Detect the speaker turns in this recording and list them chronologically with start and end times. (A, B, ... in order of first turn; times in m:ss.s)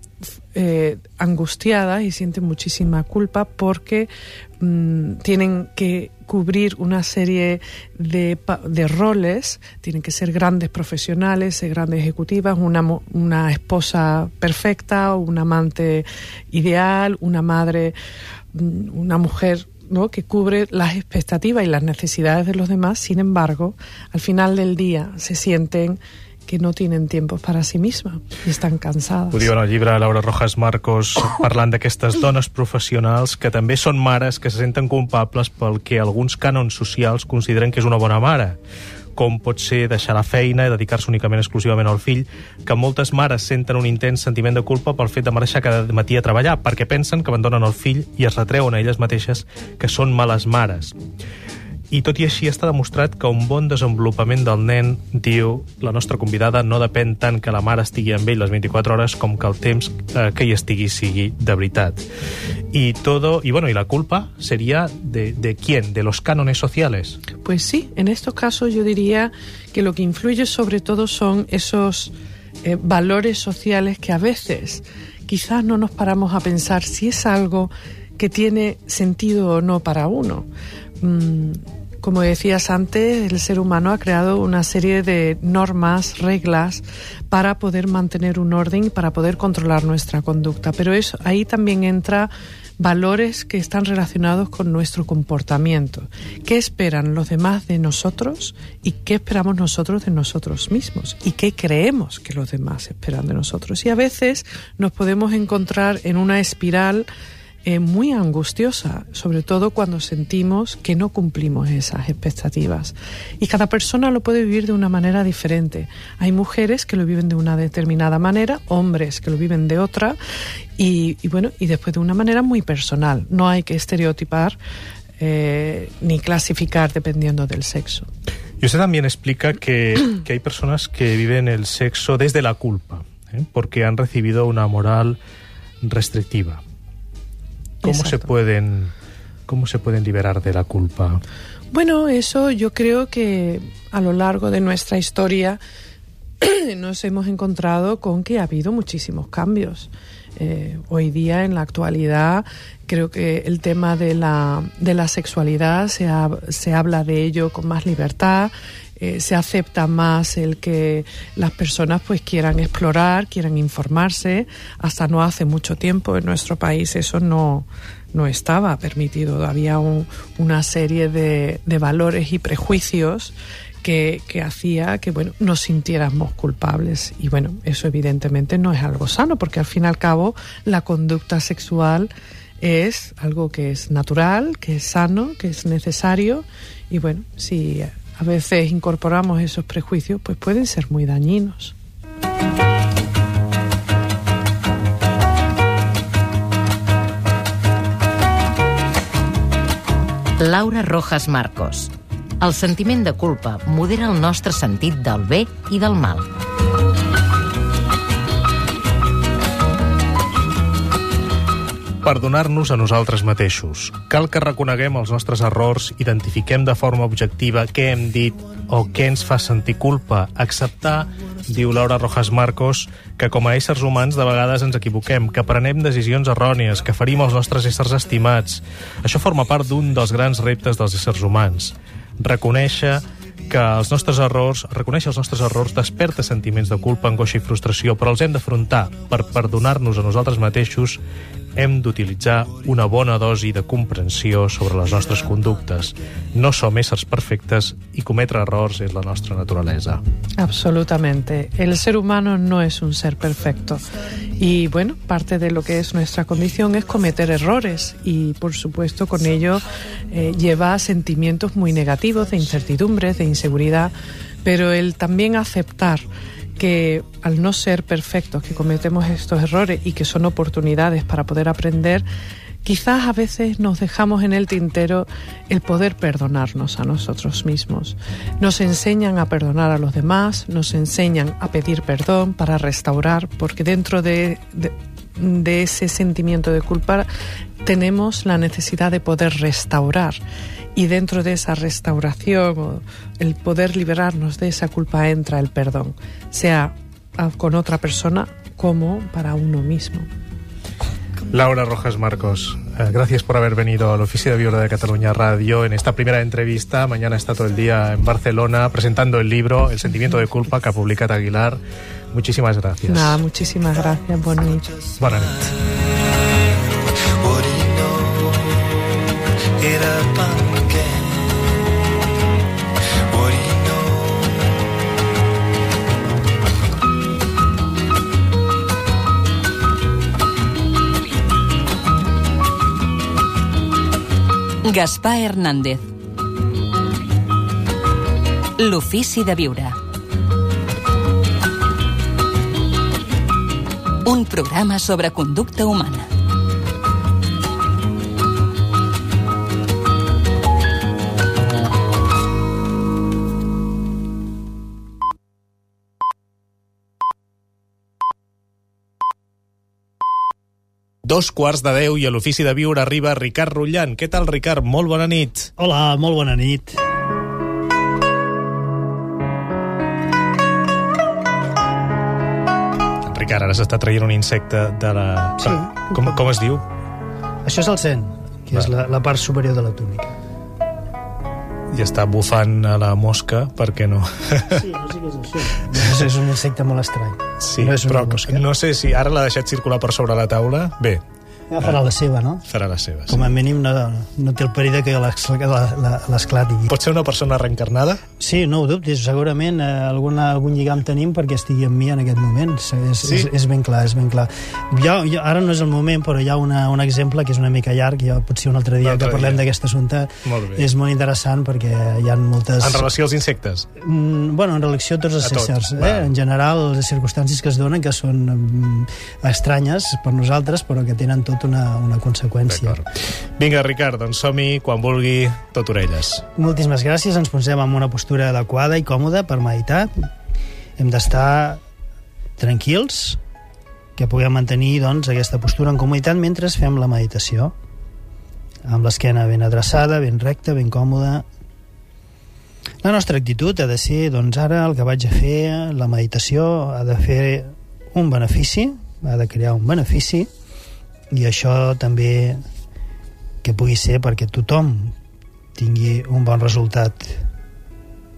0:00.5-0:17.9 A
0:18.5-0:29.5 A
0:29.3-0:38.6 B
0:39.2-0:50.9 B
0:51.9-1:02.0 B
1:02.7-1:07.2 B
1:07.4-1:20.5 A
1:21.0-1:47.1 A
1:47.6-2:00.2 A
2:00.8-2:04.6 A
2:05.2-2:08.1 A
2:08.6-2:15.2 B
2:15.8-2:16.6 B
2:17.8-2:18.3 A
2:17.8-2:18.9 B
2:19.5-2:21.2 B
2:21.7-2:25.6 A
2:26.4-3:11.7 A
3:20.4-3:26.3 C
3:32.0-4:01.0 B
4:01.6-4:10.0 B
4:10.4-4:13.8 A
4:14.4-4:32.1 A
4:32.6-4:47.1 A
4:47.6-4:50.2 A
4:50.7-5:00.1 A
5:01.3-5:11.6 B
5:12.1-5:13.2 B
5:12.9-5:14.7 A
5:15.0-5:15.5 B
5:34.6-5:35.8 D
5:38.6-5:39.8 D
5:44.0-5:46.1 D
6:01.0-6:05.5 B
6:05.6-6:06.8 E
6:13.0-6:16.6 B
6:17.4-6:20.2 E
6:21.7-6:24.6 B
6:24.5-6:28.4 E
6:27.4-6:31.0 B
6:31.5-6:32.4 E
6:32.5-6:33.2 B
6:33.1-6:36.7 E
6:36.7-6:38.0 B
6:38.2-6:52.9 E
6:43.0-6:43.3 B
6:48.8-6:49.5 B
6:50.2-6:50.7 B
6:52.6-6:53.7 B
6:53.8-7:02.8 E
6:55.2-6:56.1 B
7:02.5-7:02.8 B
7:03.4-7:06.2 B
7:06.3-7:10.1 E
7:10.8-7:11.6 E
7:12.4-7:13.2 E
7:14.0-7:17.5 E
7:18.6-7:21.2 E
7:22.8-7:30.3 E
7:31.1-7:32.4 E
7:33.4-7:34.9 E
7:35.6-7:37.2 E